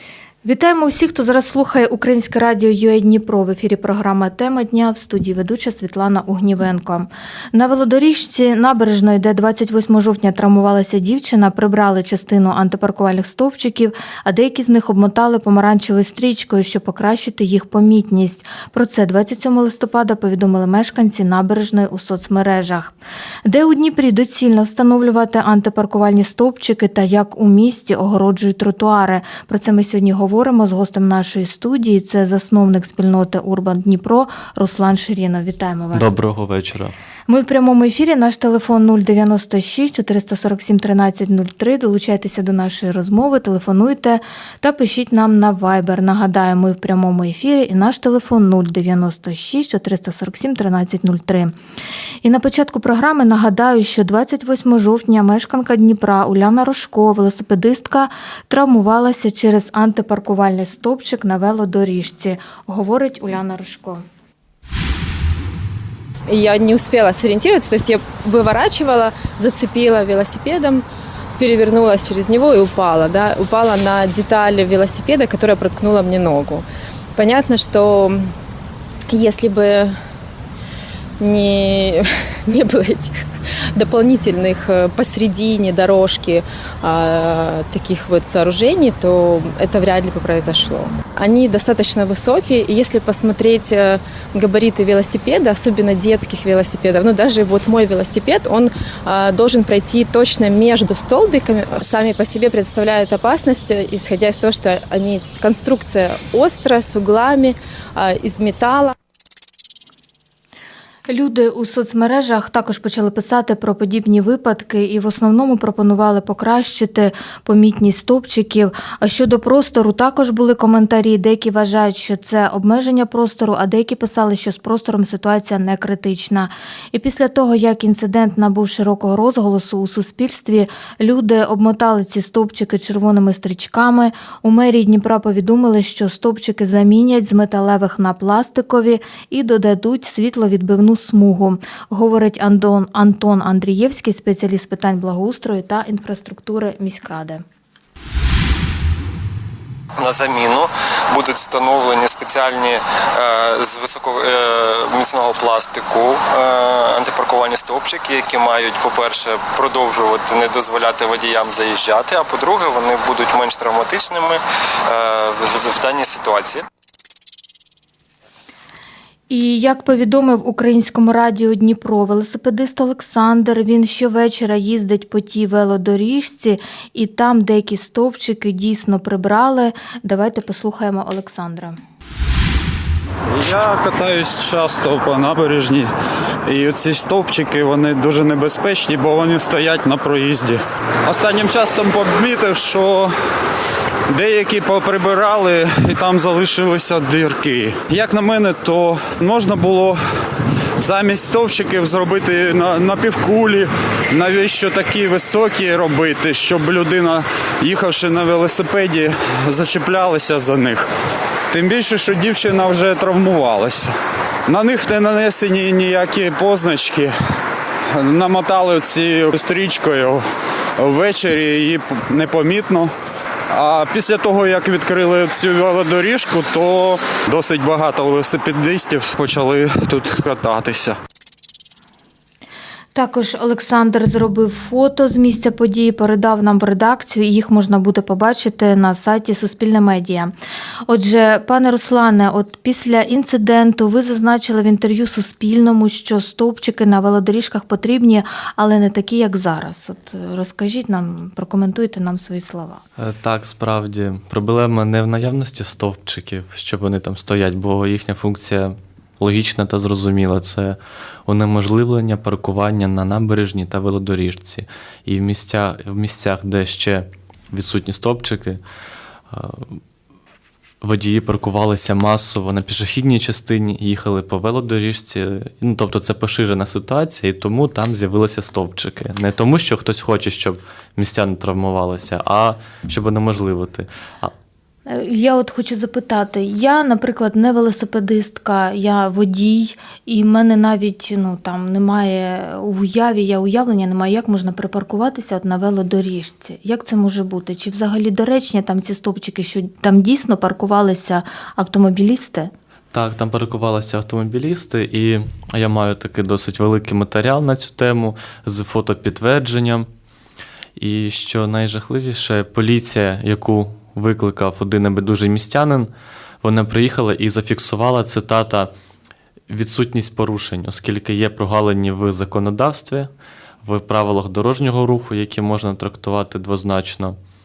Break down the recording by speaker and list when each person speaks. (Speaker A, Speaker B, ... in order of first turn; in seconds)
Speaker A: 0.4-22.9, 23.4-36.1, 37.3-51.5, 52.2-64.0, 111.1-147.4, 169.3-181.8, 232.9-240.3, 240.9-252.8, 284.9-302.5
Speaker B: 35.9-37.0, 253.0-268.6, 269.3-269.8, 270.8-284.3, 302.9-309.9, 310.8-315.9, 316.4-318.7, 319.5-323.1, 323.6-327.2
Speaker C: 66.3-70.8, 71.4-76.7, 77.2-78.3, 79.1-80.0, 81.2-108.9
Speaker D: 150.0-166.7
Speaker E: 183.3-185.9, 186.4-193.1, 194.1-200.0, 200.8-210.9, 211.5-213.9, 214.5-217.1, 217.9-220.2, 220.8-222.9, 223.5-231.0